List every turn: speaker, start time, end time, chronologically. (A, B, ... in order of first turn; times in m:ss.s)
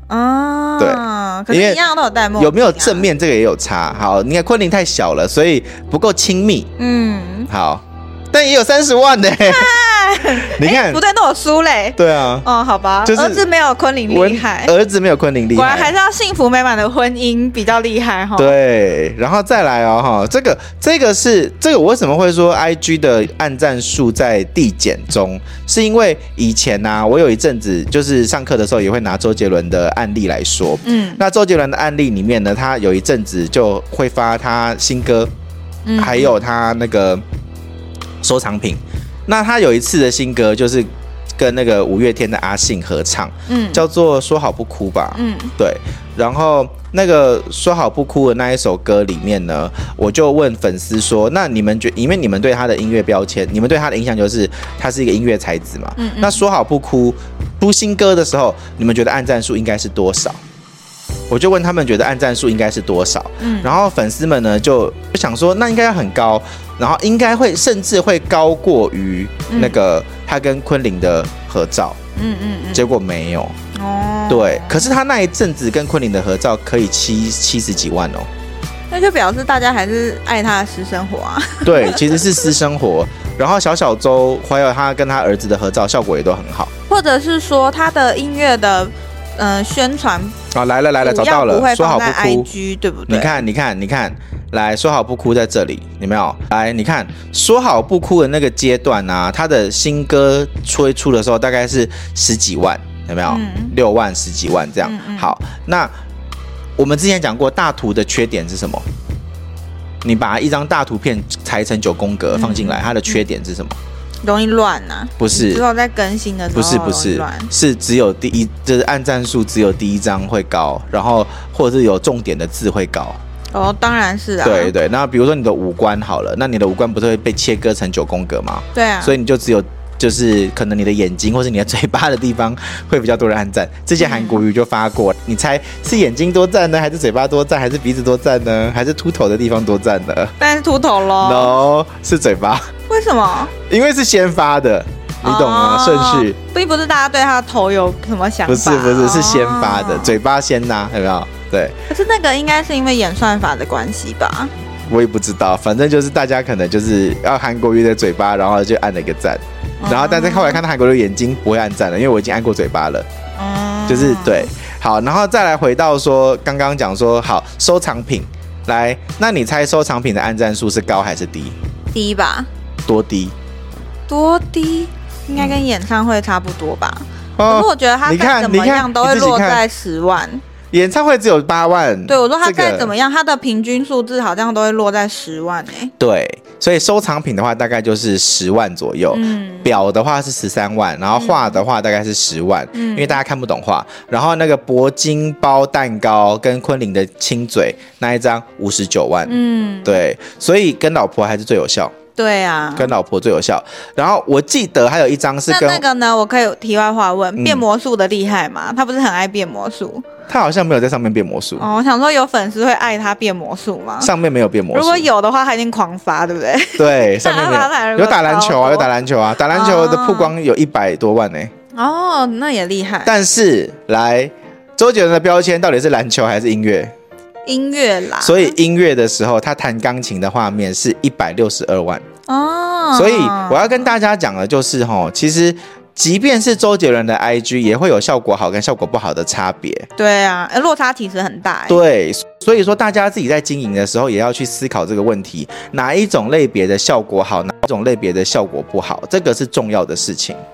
0:00.1-0:03.1 A
0:00.8-0:01.8 B
0:02.4-0:06.7 B
0:06.8-0:07.5 A
0:07.5-0:09.7 B
0:09.4-0:14.7 A
0:10.3-0:11.0 B
0:12.0-0:12.5 B
0:13.0-0:13.4 B
0:14.1-0:15.9 B
0:15.6-0:18.5 A
0:18.4-0:35.3 B
0:30.8-0:31.2 A
0:35.9-0:36.4 A
0:36.0-0:37.2 B
0:38.2-1:00.4 B
0:43.5-0:43.8 A
0:45.2-0:45.5 A
0:56.0-0:56.4 A
1:01.3-1:12.0 B
1:03.4-1:03.8 A
1:09.5-1:09.8 A
1:12.2-1:12.9 A
1:12.7-1:13.6 B
1:13.7-1:14.8 A
1:14.3-1:18.3 B
1:18.9-1:22.3 A
1:21.6-1:26.7 B
1:26.9-1:30.4 A
1:30.5-1:32.5 B
1:31.0-1:33.4 A
1:33.1-1:45.9 B
1:43.3-1:43.7 A
1:44.8-1:45.3 A
1:46.8-1:48.8 B
1:50.0-1:53.8 B
1:52.3-1:53.2 A
1:54.2-1:57.5 A
1:55.2-1:55.6 B
1:56.5-2:03.2 B
2:03.5-2:04.7 A
2:04.4-2:20.4 B
2:08.7-2:09.2 A
2:14.0-2:14.4 A
2:20.4-2:21.6 A
2:21.2-2:22.7 B
2:22.9-2:23.5 A
2:23.6-2:26.4 B
2:25.2-2:30.2 A
2:28.5-2:31.8 B
2:31.9-2:34.5 A
2:34.9-2:43.1 B
2:39.8-2:40.6 A
2:43.4-2:44.5 A
2:43.9-2:51.6 B
2:51.9-2:52.5 A
2:52.9-2:53.4 B
2:54.1-3:00.4 A
2:57.4-2:59.6 B
3:00.7-3:02.9 B
3:02.1-3:05.9 A
3:06.0-3:22.0 B
3:09.1-3:09.7 A
3:11.1-3:11.6 A
3:12.7-3:13.2 A
3:19.3-3:20.0 A
3:22.2-3:22.9 A
3:22.8-3:25.8 B
3:25.5-3:30.0 A
3:27.4-3:27.6 B
3:30.3-3:31.7 B
3:31.6-3:34.1 A
3:34.0-3:35.1 B
3:34.7-3:38.9 A
3:36.8-3:41.5 B
3:39.5-3:40.3 A
3:41.7-3:43.1 A
3:43.0-3:46.9 B
3:47.5-3:48.6 A
3:48.2-3:52.0 B
3:52.3-3:53.9 A
3:52.9-3:59.9 B
4:00.0-4:01.8 A
4:01.7-4:10.4 B